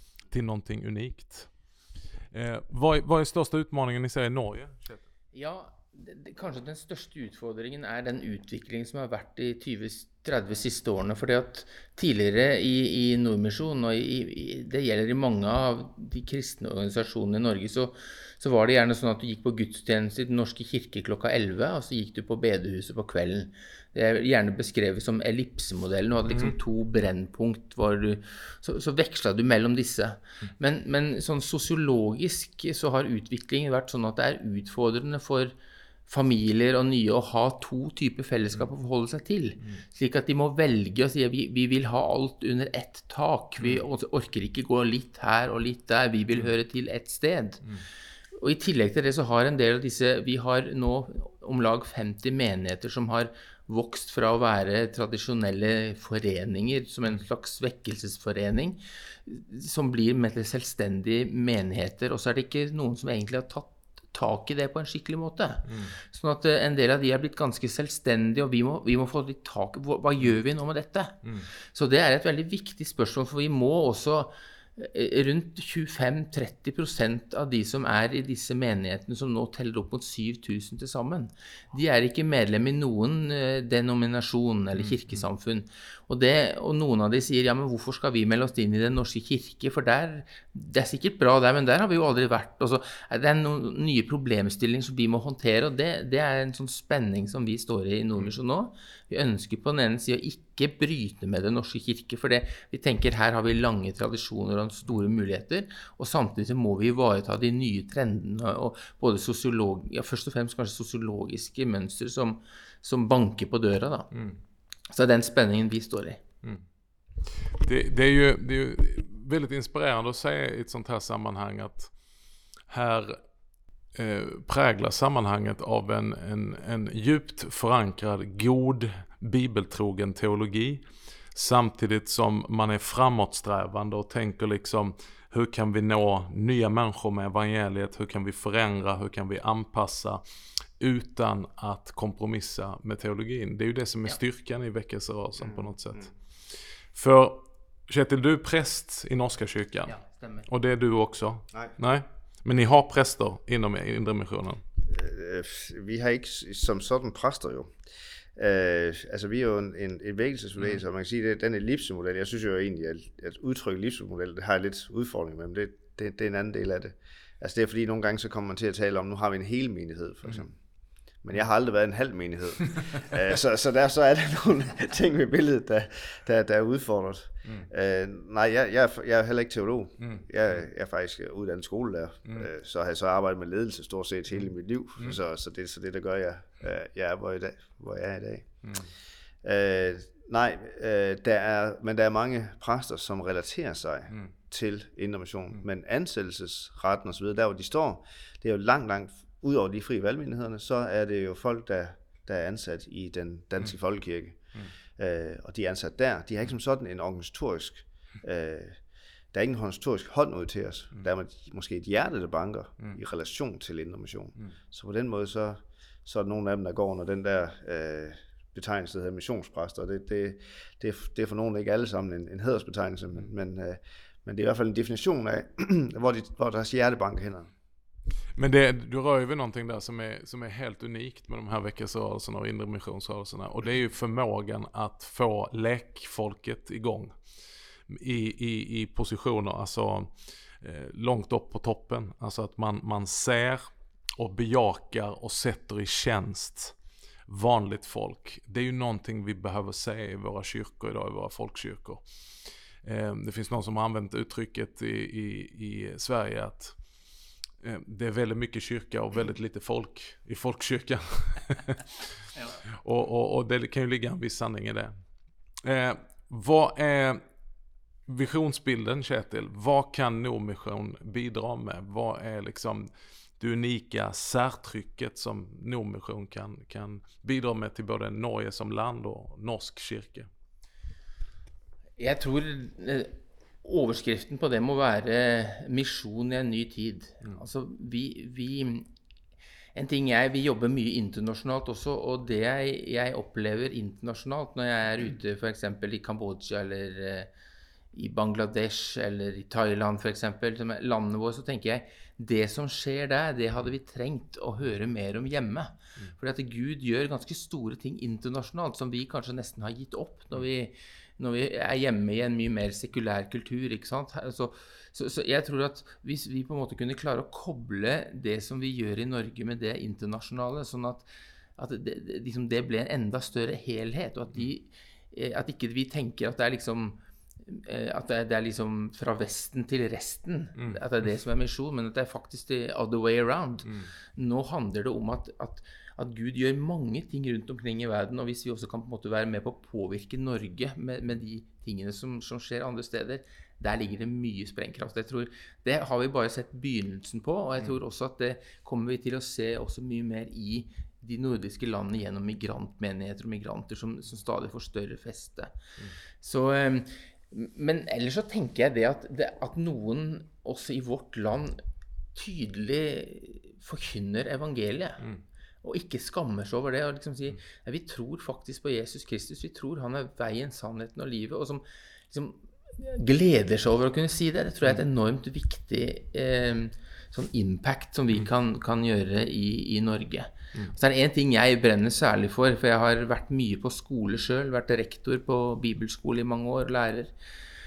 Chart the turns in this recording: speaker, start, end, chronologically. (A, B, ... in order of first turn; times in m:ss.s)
0:00.3-0:01.5 A
0:02.3-0:05.0 A
0:05.3-0:35.5 B
0:26.3-0:26.5 A
0:36.1-0:47.6 B
0:48.3-1:54.1 B
1:05.6-1:05.9 A
1:11.2-1:11.5 A
1:24.7-1:25.2 A
1:54.1-1:54.4 A
1:54.9-1:56.2 B
1:57.3-2:01.9 A
2:02.7-2:03.2 A
2:03.9-2:10.8 A
2:11.3-2:20.2 A
2:20.8-2:26.1 A
2:25.4-2:26.0 C
2:26.9-2:29.9 A
2:29.8-2:30.5 B
2:30.5-2:34.6 A
2:34.8-2:37.7 C
2:38.4-2:50.6 C
2:51.2-3:08.5 C
3:00.0-3:00.2 A
3:08.6-3:08.9 A
3:09.4-3:28.8 C
3:29.3-3:47.5 C
3:48.3-3:57.2 A
3:57.9-4:03.6 A
4:04.2-4:06.8 A
4:07.3-4:12.0 A
4:12.8-4:16.8 A
4:17.6-4:24.9 A
4:25.6-4:27.2 A
4:28.1-4:32.9 A
4:33.4-4:40.3 A
4:42.0-4:43.1 B
4:43.6-4:48.9 B
4:49.7-4:57.3 B
4:57.9-5:21.0 B
5:21.6-5:55.6 B
5:30.6-5:30.8 A
5:56.2-6:01.6 B
6:02.1-6:05.0 B
6:05.6-6:27.1 B